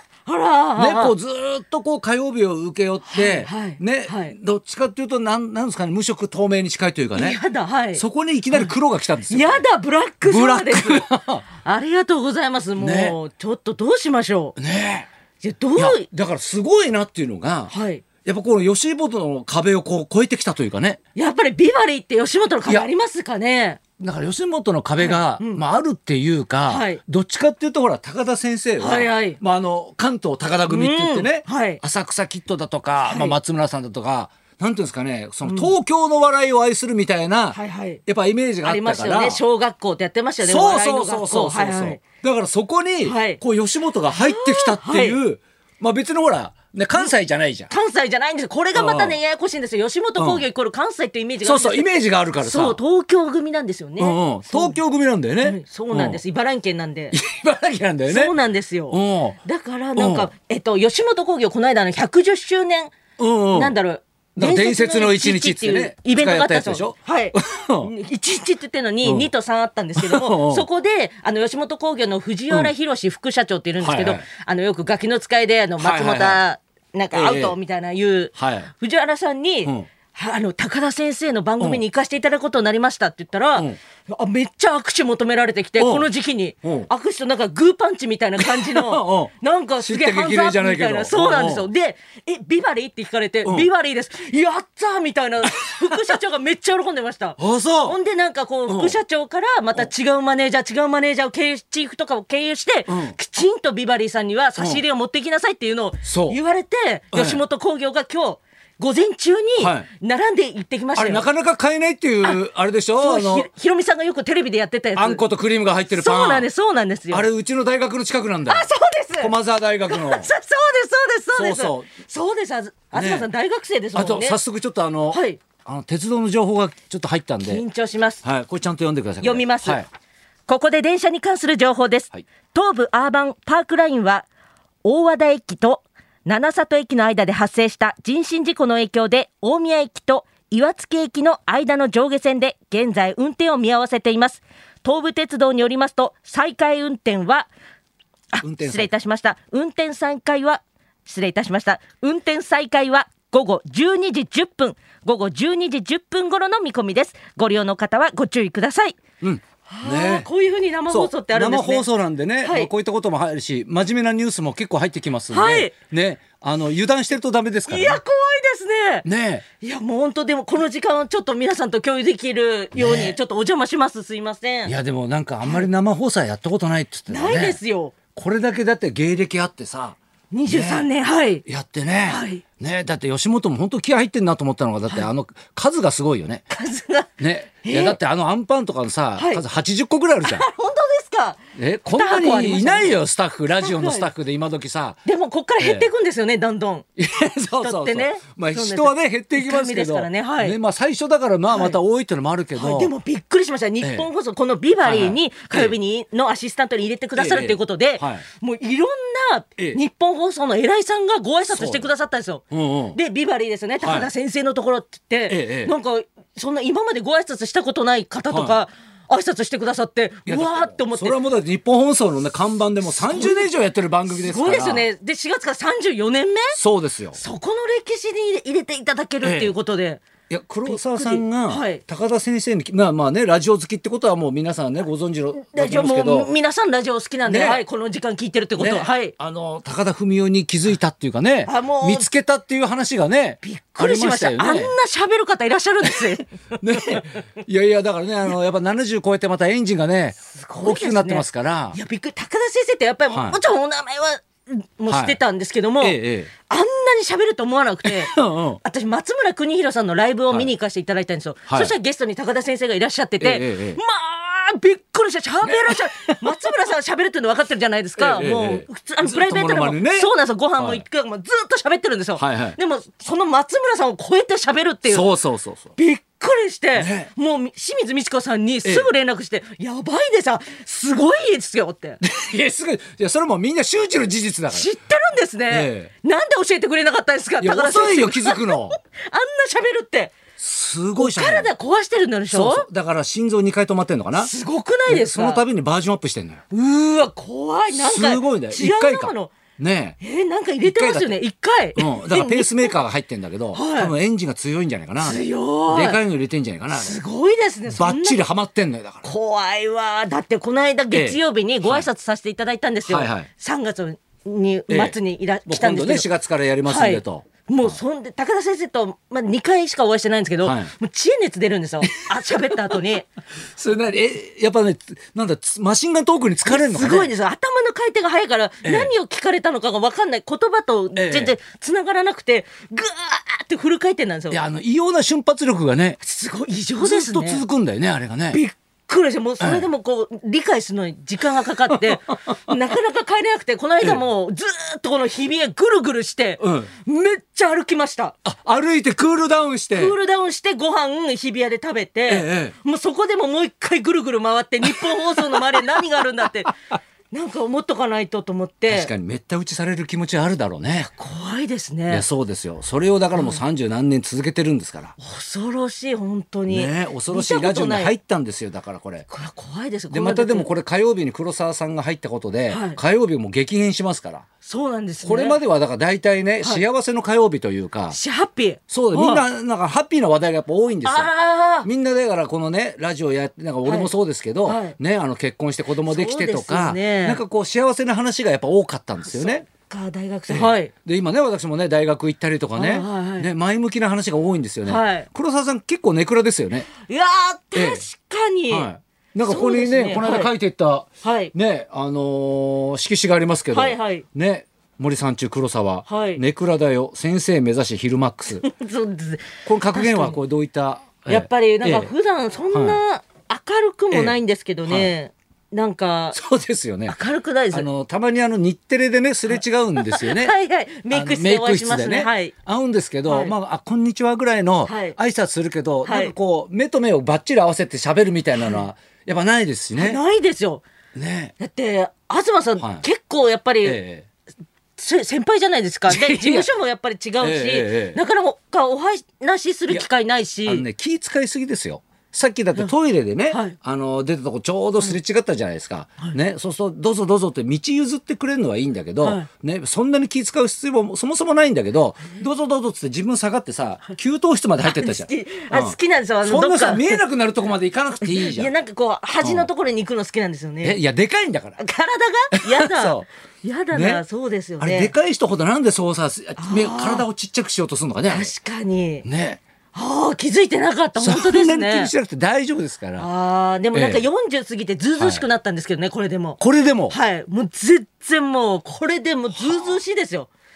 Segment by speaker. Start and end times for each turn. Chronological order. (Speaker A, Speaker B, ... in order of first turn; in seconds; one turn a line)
Speaker A: 0.2-1.1
Speaker B: 0.8-7.4
Speaker A: 3.1-4.3
Speaker A: 7.1-8.7
Speaker B: 8.0-9.6
Speaker A: 9.2-11.1
Speaker B: 10.2-11.4
Speaker A: 11.6-14.6
Speaker B: 12.8-13.2
Speaker B: 14.6-15.1
Speaker A: 15.4-16.0
Speaker B: 15.8-17.7
Speaker A: 17.7-18.0
Speaker B: 18.2-21.0
Speaker A: 21.1-23.8
Speaker B: 24.0-39.4
Speaker A: 25.0-25.6
Speaker A: 26.7-27.0
Speaker A: 28.8-29.4
Speaker A: 30.7-31.8
Speaker A: 33.0-33.4
Speaker A: 35.4-35.7
Speaker A: 37.5-38.0
Speaker A: 38.6-42.0
Speaker B: 40.4-47.7
Speaker A: 43.0-43.4
Speaker A: 44.1-45.2
Speaker A: 47.7-51.9
Speaker B: 48.7-49.2
Speaker B: 50.2-50.5
Speaker B: 51.4-52.8
Speaker A: 52.4-54.8
Speaker B: 54.0-56.2
Speaker A: 55.4-57.1
Speaker B: 57.1-58.3
Speaker A: 58.1-63.0
Speaker B: 58.9-59.4
Speaker B: 60.0-60.3
Speaker B: 63.2-63.8
Speaker A: 63.5-111.3
Speaker B: 64.3-67.9
Speaker B: 69.0-69.3
Speaker B: 70.0-70.7
Speaker B: 73.8-74.2
Speaker B: 75.8-76.4
Speaker B: 77.1-77.5
Speaker B: 78.4-78.7
Speaker B: 85.8-86.1
Speaker B: 86.6-86.9
Speaker B: 88.4-91.7
Speaker B: 93.4-93.7
Speaker B: 97.4-98.0
Speaker B: 98.7-99.0
Speaker B: 102.9-103.2
Speaker B: 104.6-104.8
Speaker B: 106.0-106.4
Speaker B: 107.1-107.4
Speaker B: 109.6-109.9
Speaker B: 110.9-113.5
Speaker A: 113.0-115.2
Speaker B: 114.9-116.5
Speaker A: 115.9-117.3
Speaker B: 117.1-118.7
Speaker A: 118.5-119.3
Speaker B: 119.2-120.3
Speaker A: 119.9-124.4
Speaker B: 121.3-121.9
Speaker B: 122.9-123.3
Speaker B: 123.9-127.6
Speaker A: 125.1-125.4
Speaker A: 127.4-128.2
Speaker B: 128.2-129.8
Speaker A: 129.2-129.8
Speaker A: 130.5-134.3
Speaker A: 134.8-147.5
Speaker A: 148.3-159.0
Speaker B: 148.4-148.9
Speaker B: 159.2-160.3
Speaker A: 159.7-161.8
Speaker B: 160.9-168.0
Speaker A: 162.4-162.7
Speaker A: 165.3-165.7
Speaker A: 167.7-169.0
Speaker B: 169.0-169.4
Speaker A: 169.6-174.7
Speaker B: 172.7-173.2
Speaker B: 174.7-177.6
Speaker A: 177.1-177.9
Speaker B: 178.1-180.8
Speaker A: 180.3-181.4
Speaker B: 181.4-186.4
Speaker A: 182.0-182.4
Speaker A: 186.5-187.1
Speaker B: 187.2-190.5
Speaker A: 187.6-188.0
Speaker A: 189.2-189.4
Speaker A: 190.2-191.4
Speaker B: 191.6-195.0
Speaker A: 191.9-193.0
Speaker A: 193.5-194.1
Speaker A: 195.0-196.8
Speaker B: 195.6-195.9
Speaker B: 197.0-202.9
Speaker A: 197.6-200.6
Speaker A: 201.5-201.8
Speaker A: 202.6-221.2
Speaker B: 203.8-204.1
Speaker B: 204.8-205.7
Speaker B: 207.2-208.2
Speaker B: 211.5-211.9
Speaker B: 212.5-213.0
Speaker B: 213.8-214.1
Speaker B: 215.3-215.7
Speaker B: 218.3-218.6
Speaker B: 220.2-224.9
Speaker A: 222.9-223.4
Speaker A: 224.1-226.6
Speaker B: 226.5-227.2
Speaker A: 227.1-230.0
Speaker B: 229.2-229.5
Speaker B: 230.3-236.3
Speaker A: 230.7-231.8
Speaker A: 235.4-239.1
Speaker B: 237.2-237.6
Speaker B: 238.6-244.7
Speaker A: 241.5-242.1
Speaker A: 243.4-247.1
Speaker B: 245.8-246.1
Speaker B: 246.6-251.8
Speaker A: 250.3-275.1
Speaker B: 253.1-253.4
Speaker B: 254.9-255.2
Speaker B: 255.8-256.3
Speaker B: 257.8-258.6
Speaker B: 261.5-261.7
Speaker B: 263.2-263.8
Speaker B: 265.4-266.5
Speaker B: 267.9-270.8
Speaker B: 272.2-272.6
Speaker B: 274.9-275.7
Speaker A: 275.8-282.0
Speaker B: 276.8-277.1
Speaker B: 278.6-278.9
Speaker B: 282.0-284.7
Speaker A: 284.5-290.1
Speaker B: 285.5-285.9
Speaker B: 287.4-288.8
Speaker B: 290.4-291.5
Speaker A: 291.0-292.6
Speaker B: 292.3-294.3
Speaker A: 294.2-295.4
Speaker B: 294.9-296.4
Speaker A: 296.5-299.4
Speaker B: 297.7-300.0
Speaker A: 300.0-302.8
Speaker B: 300.6-301.1
Speaker B: 301.8-307.0
Speaker A: 303.5-303.9
Speaker A: 305.0-306.0
Speaker A: 306.7-308.3
Speaker B: 307.7-309.1
Speaker A: 309.0-316.1
Speaker B: 310.9-311.9
Speaker B: 312.9-313.3
Speaker B: 314.7-317.8
Speaker A: 316.6-323.1
Speaker B: 320.4-320.7
Speaker B: 321.8-322.6
Speaker B: 323.5-327.1
Speaker A: 326.5-334.4
Speaker B: 328.6-328.9
Speaker B: 330.9-331.3
Speaker B: 334.3-336.0
Speaker A: 336.0-337.4
Speaker B: 336.8-338.4
Speaker A: 338.3-348.1
Speaker B: 339.4-339.6
Speaker B: 341.7-342.5
Speaker B: 346.4-346.7
Speaker B: 348.2-349.9
Speaker A: 349.7-356.5
Speaker B: 352.1-352.5
Speaker B: 354.6-356.0
Speaker A: 357.1-358.9
Speaker B: 358.7-360.9
Speaker A: 360.9-362.0
Speaker B: 361.9-364.9
Speaker A: 363.1-363.4
Speaker A: 365.0-367.9
Speaker B: 366.5-369.1
Speaker A: 369.1-370.5
Speaker B: 369.9-374.2
Speaker A: 372.5-372.8
Speaker A: 374.4-375.4
Speaker B: 375.0-378.0
Speaker A: 377.9-379.2
Speaker B: 378.7-389.4
Speaker A: 380.8-381.7
Speaker A: 383.6-383.9
Speaker A: 384.4-384.8
Speaker A: 385.8-387.2
Speaker A: 389.0-390.7
Speaker B: 390.3-396.7
Speaker A: 392.6-393.3
Speaker A: 394.6-395.1
Speaker A: 396.8-398.7
Speaker B: 397.5-397.8
Speaker B: 398.5-408.4
Speaker A: 399.2-400.3
Speaker A: 401.0-401.3
Speaker A: 403.5-404.1
Speaker A: 405.9-406.2
Speaker A: 408.3-410.2
Speaker B: 409.4-411.9
Speaker A: 411.1-416.2
Speaker B: 412.5-412.8
Speaker B: 413.9-414.9
Speaker B: 416.1-417.0
Speaker A: 416.9-417.7
Speaker B: 417.5-420.3
Speaker A: 419.8-422.3
Speaker B: 420.9-430.0
Speaker A: 423.1-423.3
Speaker A: 424.6-424.9
Speaker A: 425.8-426.1
Speaker A: 429.8-430.6
Speaker B: 430.9-431.3
Speaker A: 431.4-433.8
Speaker B: 432.6-432.9
Speaker B: 433.6-434.1
Speaker A: 434.8-440.6
Speaker B: 435.9-436.5
Speaker B: 437.2-438.0
Speaker B: 440.4-458.5
Speaker A: 443.3-443.6
Speaker A: 449.0-449.3
Speaker A: 454.6-457.0
Speaker A: 458.0-460.8
Speaker B: 459.2-459.5
Speaker B: 460.6-461.6
Speaker A: 461.6-464.9
Speaker B: 462.3-463.1
Speaker B: 463.7-464.0
Speaker B: 464.6-468.3
Speaker A: 466.4-467.1
Speaker A: 468.1-469.0
Speaker B: 469.0-469.4
Speaker A: 469.7-471.9
Speaker B: 471.0-473.1
Speaker A: 473.0-480.3
Speaker B: 473.7-474.1
Speaker B: 475.0-475.2
Speaker B: 476.4-476.9
Speaker B: 479.3-479.8